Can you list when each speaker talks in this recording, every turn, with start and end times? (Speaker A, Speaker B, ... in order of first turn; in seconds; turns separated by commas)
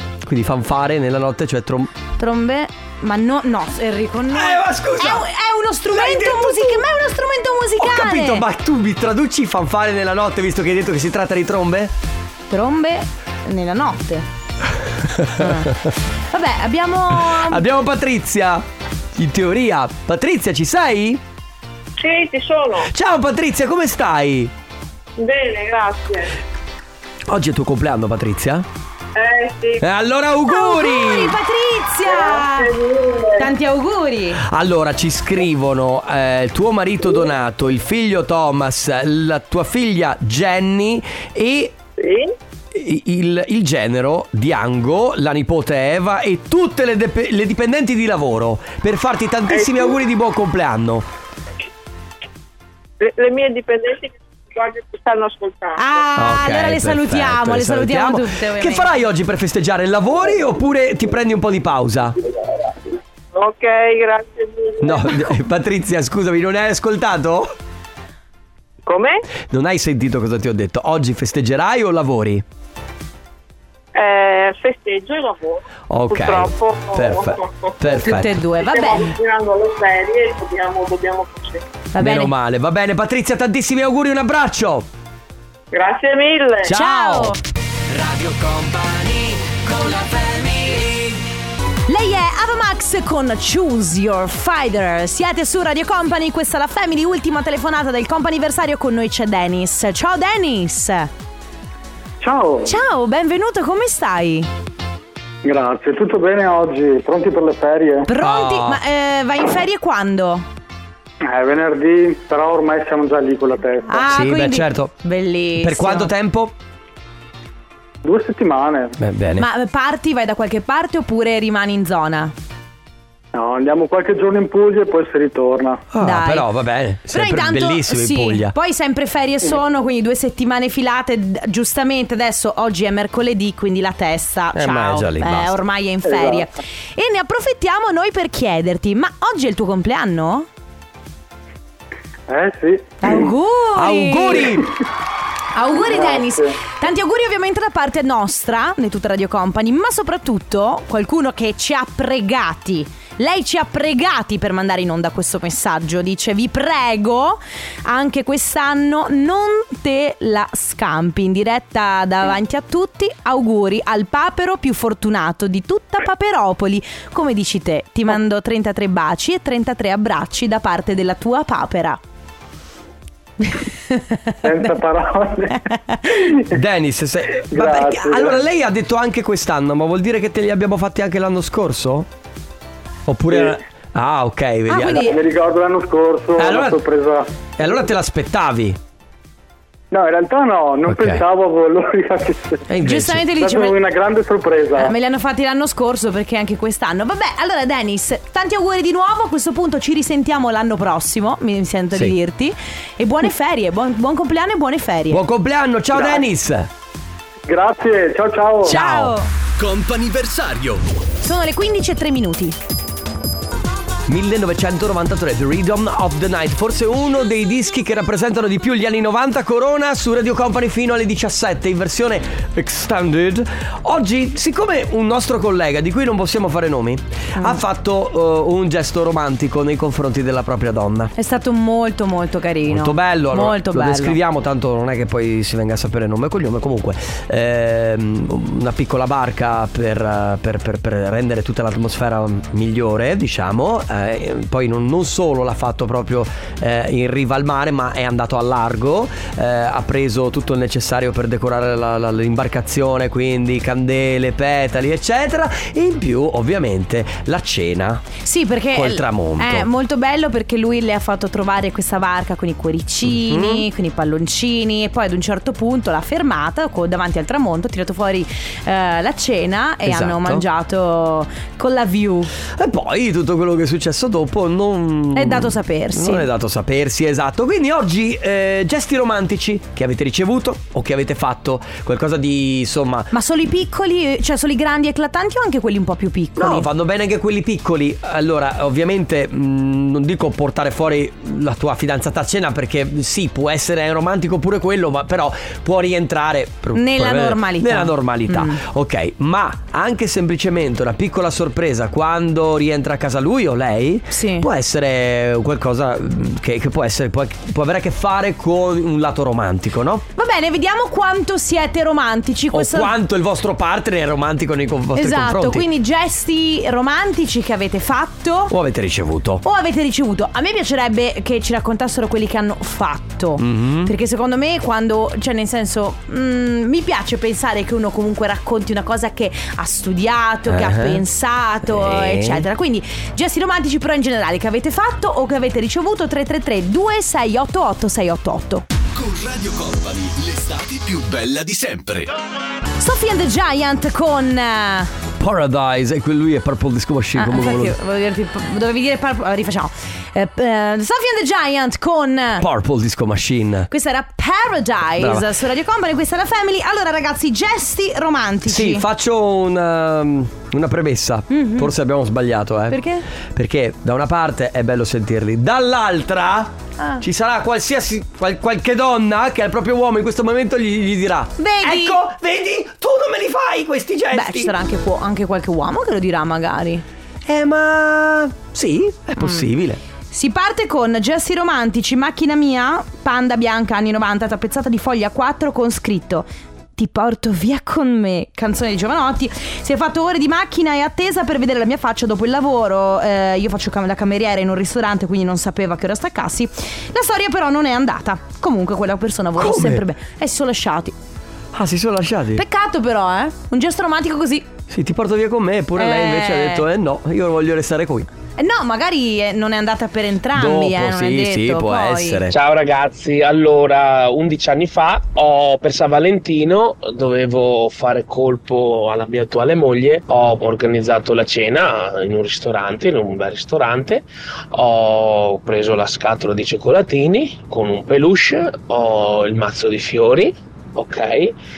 Speaker A: 0.2-1.9, Speaker B: 2.2-8.4, Speaker A: 4.3-5.3, Speaker A: 5.9-6.9, Speaker A: 7.8-11.9, Speaker B: 12.5-14.3, Speaker A: 15.0-15.9, Speaker B: 15.4-17.6, Speaker A: 17.1-21.2, Speaker C: 22.0-22.9, Speaker A: 22.9-24.5, Speaker C: 25.2-26.3, Speaker A: 27.3-28.7, Speaker C: 29.1-29.8, Speaker A: 29.8-31.4, Speaker B: 30.4-32.8, Speaker C: 32.1-33.5, Speaker B: 33.4-34.4, Speaker A: 34.4-41.8, Speaker C: 42.0-42.3, Speaker A: 42.7-51.1, Speaker C: 49.5-50.0, Speaker C: 53.0-56.0, Speaker B: 55.8-58.9, Speaker A: 56.2-62.2, Speaker C: 63.3-65.3, Speaker A: 64.8-67.5, Speaker C: 68.9-69.2, Speaker A: 69.5-72.4, Speaker C: 73.9-78.0, Speaker A: 75.9-78.4, Speaker B: 77.9-79.2, Speaker C: 78.6-81.6, Speaker B: 81.9-82.3, Speaker A: 82.0-84.9, Speaker C: 85.7-86.7, Speaker A: 86.6-87.4, Speaker B: 86.7-87.4, Speaker A: 87.9-91.2, Speaker B: 91.9-101.1, Speaker D: 102.2-102.8, Speaker B: 102.7-104.5, Speaker D: 105.5-108.1, Speaker B: 108.1-110.5, Speaker A: 108.2-108.8, Speaker D: 111.2-114.0, Speaker B: 113.9-116.1, Speaker A: 114.0-114.9, Speaker A: 115.6-116.5, Speaker D: 118.0-119.0, Speaker A: 119.0-119.5, Speaker B: 119.4-122.3, Speaker D: 123.3-125.8, Speaker A: 125.9-128.6, Speaker B: 126.0-126.5, Speaker B: 127.1-140.5, Speaker A: 134.5-135.6, Speaker D: 136.1-136.4, Speaker D: 142.3-143.3, Speaker B: 143.0-144.6, Speaker A: 143.8-144.8, Speaker B: 145.5-172.0, Speaker D: 145.8-146.6, Speaker B: 173.4-174.8, Speaker D: 174.4-176.5, Speaker B: 175.5-176.2, Speaker A: 176.5-182.1, Speaker D: 177.5-178.4, Speaker A: 183.1-185.2, Speaker B: 184.7-185.2, Speaker D: 184.9-187.3, Speaker A: 186.4-186.8, Speaker A: 187.6-188.8, Speaker D: 189.9-192.7, Speaker A: 190.9-191.2, Speaker A: 192.7-193.2, Speaker B: 192.8-193.8, Speaker D: 193.3-194.9, Speaker B: 194.8-205.2, Speaker A: 205.1-206.7, Speaker D: 205.9-206.2, Speaker D: 207.5-208.8, Speaker A: 208.7-210.8, Speaker B: 208.7-209.3, Speaker B: 211.2-212.6, Speaker A: 214.1-231.1, Speaker B: 231.2-234.2, Speaker A: 232.7-258.1, Speaker B: 258.2-272.3, Speaker A: 258.7-259.7, Speaker A: 263.1-263.7, Speaker A: 269.8-270.5, Speaker A: 272.5-283.1, Speaker B: 275.1-276.3, Speaker B: 283.1-286.7, Speaker A: 286.4-310.1, Speaker B: 296.8-298.6, Speaker B: 304.1-304.5, Speaker B: 310.2-312.9, Speaker A: 312.5-315.7, Speaker B: 314.9-318.6, Speaker A: 318.5-319.4, Speaker B: 319.4-338.6, Speaker A: 323.4-323.9, Speaker A: 330.5-331.0, Speaker A: 331.6-332.5, Speaker E: 339.0-342.1, Speaker B: 342.8-344.9, Speaker A: 345.2-347.8, Speaker B: 347.2-352.5, Speaker A: 352.4-353.7, Speaker B: 353.7-358.9, Speaker A: 355.0-355.3, Speaker A: 358.5-374.6, Speaker B: 361.3-361.7, Speaker B: 362.7-363.1, Speaker B: 371.4-372.0, Speaker B: 374.1-376.8, Speaker A: 377.3-379.8, Speaker B: 379.2-379.5, Speaker B: 380.1-400.9, Speaker A: 399.4-399.8, Speaker A: 401.5-402.4, Speaker B: 402.4-404.5, Speaker A: 404.7-408.1, Speaker B: 405.8-406.6, Speaker B: 408.4-412.2, Speaker A: 410.3-412.4, Speaker F: 412.3-431.4